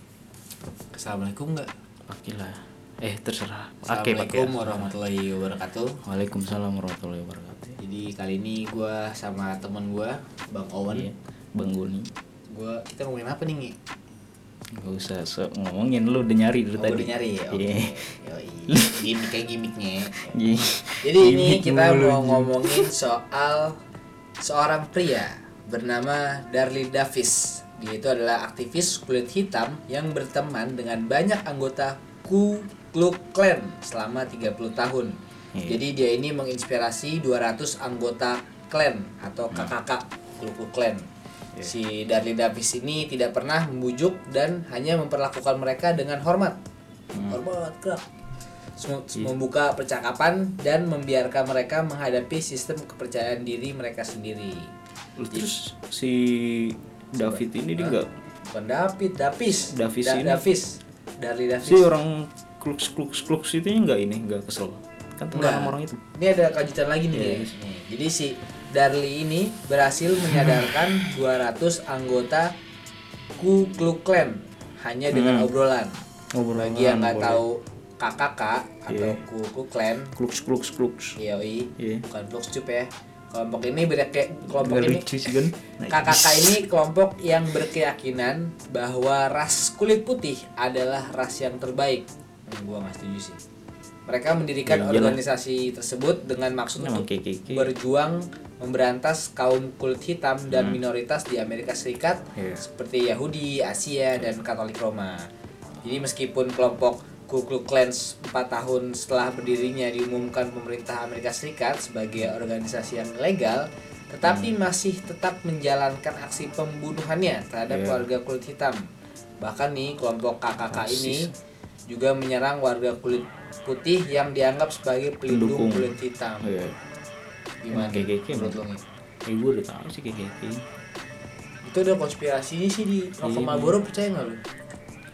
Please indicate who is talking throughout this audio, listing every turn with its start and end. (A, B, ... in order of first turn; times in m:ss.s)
0:00.9-0:01.7 A
0:02.1-0:04.9 B
0:03.8-0:06.0 A
0:06.0-0:07.8 B
0:07.8-0:11.1 A
0:10.9-0:12.1 B
0:12.5-0:13.7 A
0:14.8-0:18.0 B
0:16.8-0:20.4 A
0:18.7-0:19.2 B
0:20.1-0:22.9 B
0:21.0-0:23.8 A
0:24.4-0:41.1 A
0:41.6-0:46.6 A
0:47.1-0:47.4 B
0:47.2-0:48.0 A
0:48.8-0:54.7 A
0:55.2-0:58.1 B
0:57.2-0:58.0 A
0:58.5-1:01.9 A
0:59.7-1:00.4 B
1:01.6-1:06.0 B
1:05.3-1:12.5 A
1:07.1-1:07.5 B
1:10.3-1:10.9 B
1:13.4-1:15.9 A
1:15.1-1:15.5 B
1:16.3-1:17.4 B
1:16.6-1:20.1 A
1:18.9-1:19.2 B
1:20.2-1:21.2 B
1:21.2-1:25.1 A
1:21.8-1:22.0 B
1:24.5-1:26.6 B
1:25.9-1:33.4 A
1:34.1-1:45.3 A
1:34.6-1:35.2 B
1:36.8-1:37.7 B
1:40.5-1:40.8 B
1:42.4-1:42.6 B
1:45.8-1:58.8 A
1:57.7-1:58.0 B
1:59.4-2:01.3 A
2:00.7-2:01.3 B
2:01.9-2:06.5 A
2:05.3-2:05.9 B
2:06.4-2:06.7 B
2:07.6-2:08.8 A
2:07.7-2:08.6 B
2:09.2-2:10.6 B
2:11.6-2:14.4 A
2:13.2-2:13.8 B